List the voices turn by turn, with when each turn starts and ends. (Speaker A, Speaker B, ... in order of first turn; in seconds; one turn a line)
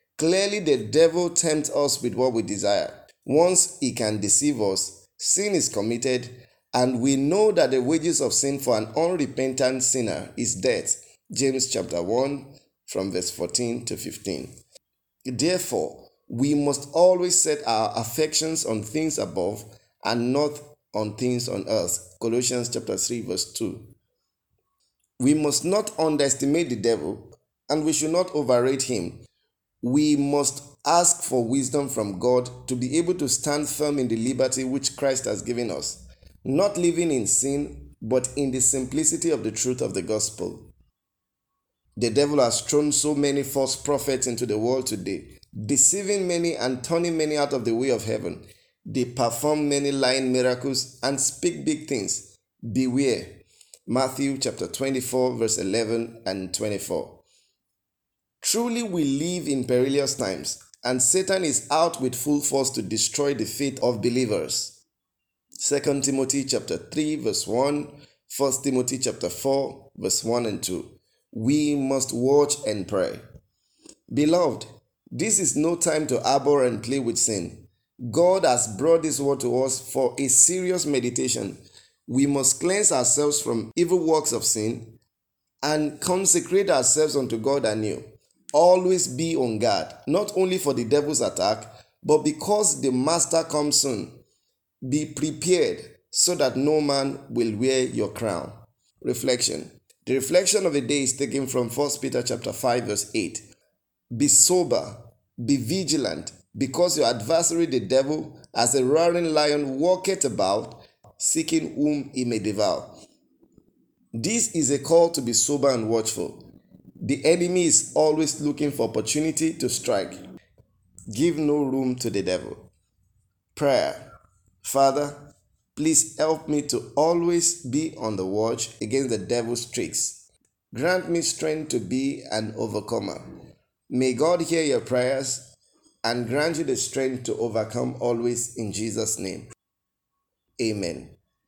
Speaker A: 0.2-14.6
Speaker A: 15.3-23.9
Speaker A: 25.2-29.2
Speaker A: 29.8-40.7
Speaker A: 42.0-57.2
Speaker A: 58.4-64.8
Speaker A: 65.6-73.2
Speaker A: 74.1-85.0
Speaker A: 85.6-94.2
Speaker A: 94.8-103.4
Speaker A: 104.1-113.0
Speaker A: 114.1-120.2
Speaker A: 121.1-122.7
Speaker A: 123.5-124.1
Speaker A: 124.6-135.5
Speaker A: 136.0-139.5
Speaker A: 140.6-141.2